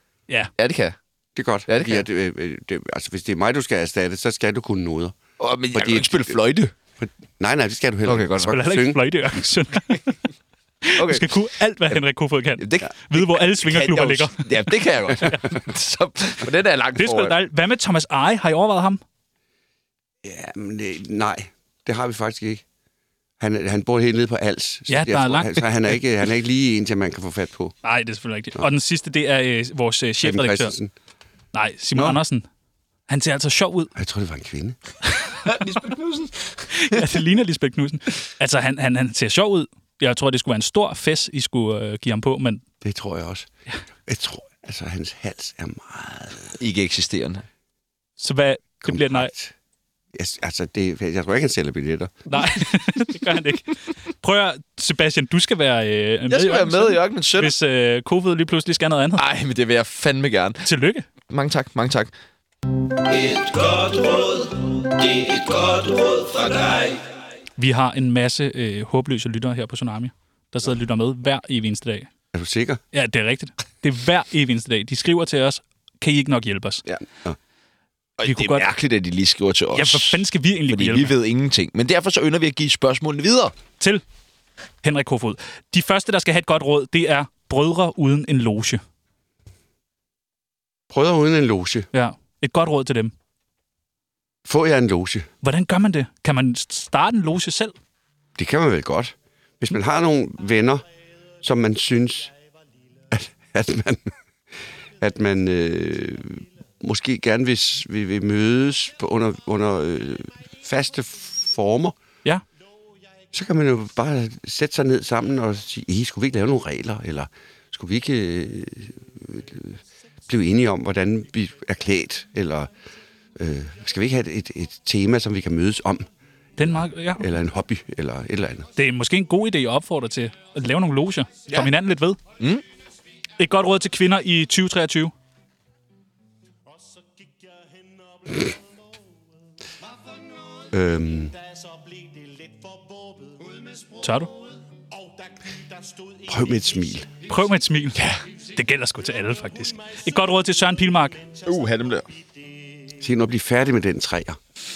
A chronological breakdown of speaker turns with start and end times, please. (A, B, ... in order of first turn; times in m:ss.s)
0:00.6-0:01.0 A
0:01.4-0:05.2 B
0:01.7-0:02.1 A
0:05.4-0:06.7 A
0:05.7-0:06.3 B
0:07.0-0:09.0 B
0:08.0-0:08.6 A
0:08.4-0:10.1 C
0:10.8-0:14.5 C
0:11.0-0:11.3 A
0:12.6-0:17.4 A
0:17.0-0:19.0 C
0:20.2-0:22.6 B
0:23.4-0:27.8 B
0:24.9-0:25.7 C
0:27.8-0:30.8 C
0:30.2-0:30.9 B
0:31.5-0:32.5 C
0:33.1-0:33.9 C
0:34.0-0:34.8 B
0:35.4-0:37.0 A
0:36.7-0:42.6 C
0:42.8-0:43.5 B
0:44.1-0:46.6 B
0:46.6-0:47.5 A
0:48.2-0:49.3 C
0:48.9-0:49.5 B
0:50.2-0:52.2 B
0:52.3-0:59.2 C
0:56.3-0:57.6 A
0:59.2-1:00.6 A
1:00.6-1:01.1 C
1:01.3-1:02.1 A
1:03.1-1:07.0 A
1:07.6-1:12.1 C
1:12.3-1:12.8 B
1:12.9-1:16.8 C
1:18.2-1:23.6 A
1:18.2-1:18.7 C
1:19.7-1:21.2 C
1:24.8-1:28.8 C
1:30.9-1:31.9 B
1:31.9-1:33.1 C
1:34.5-1:35.3 B
1:35.4-1:37.8 C
1:38.4-1:40.8 B
1:41.4-1:42.3 B
1:43.1-1:44.1 B
1:45.0-1:52.0 B
1:53.3-2:02.7 B
2:03.4-2:06.1 B
2:06.6-2:07.3 C
2:07.2-2:08.7 B
2:08.8-2:12.2 C
2:13.4-2:15.1 C
2:20.7-2:21.4 B
2:24.0-2:24.3 C
2:26.3-2:27.1 B
2:27.3-2:31.2 C
2:31.4-2:32.1 A
2:33.0-2:34.4 B